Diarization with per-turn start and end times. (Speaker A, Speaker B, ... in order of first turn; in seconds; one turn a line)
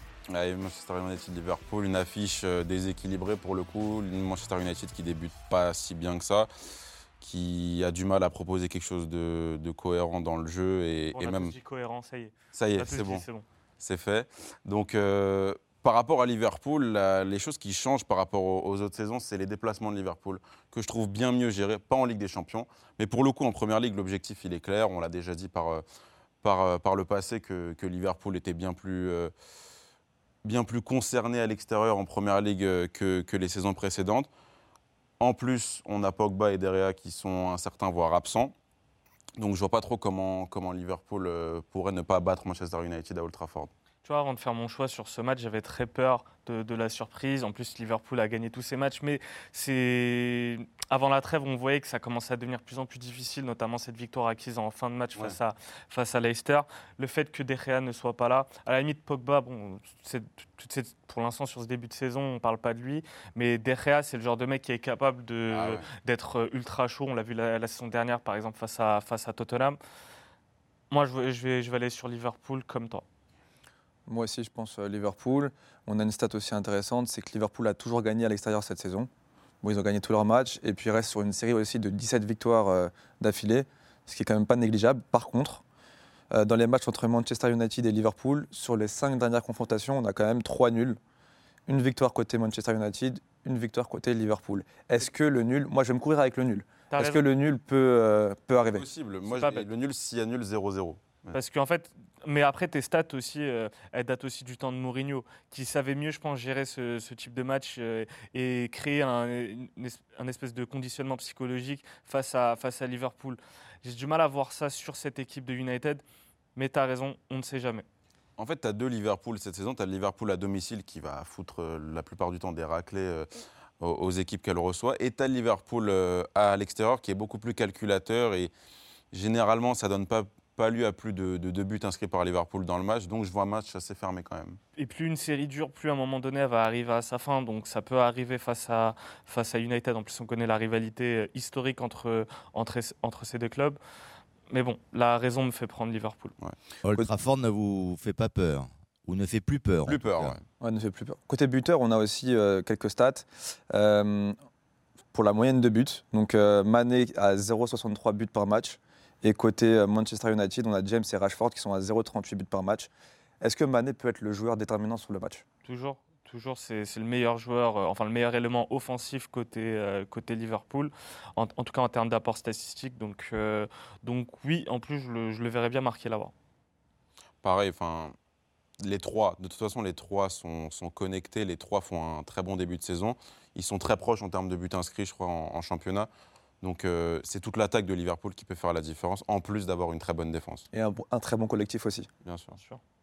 Speaker A: 0.3-6.5
Speaker A: 7.2-11.5
Speaker B: 11.1-13.4
Speaker A: 12.5-13.2
Speaker A: 13.8-25.8
Speaker A: 26.4-29.3
Speaker A: 30.4-34.3
Speaker A: 35.2-38.5
Speaker A: 39.4-43.7
Speaker B: 44.0-69.8
Speaker A: 65.5-65.9
Speaker B: 70.9-73.0
Speaker C: 74.1-79.1
Speaker C: 79.6-85.6
Speaker C: 86.3-91.0
Speaker C: 91.7-98.9
Speaker B: 96.9-97.2
Speaker A: 98.7-101.3
Speaker B: 99.2-99.7
Speaker B: 101.3-116.0
Speaker B: 116.5-117.8
Speaker A: 118.4-123.3
Speaker A: 123.8-128.5
Speaker A: 129.1-134.6
Speaker B: 134.8-143.8
Speaker B: 144.5-146.3
Speaker D: 146.8-150.3
Speaker A: 149.8-150.4
Speaker C: 150.6-154.3
Speaker C: 155.1-162.9
Speaker C: 163.4-165.4
Speaker B: 165.6-176.3
Speaker A: 177.4-178.1
Speaker A: 178.8-186.1
Speaker A: 186.6-190.7
Speaker C: 190.7-192.1
Speaker A: 192.2-192.6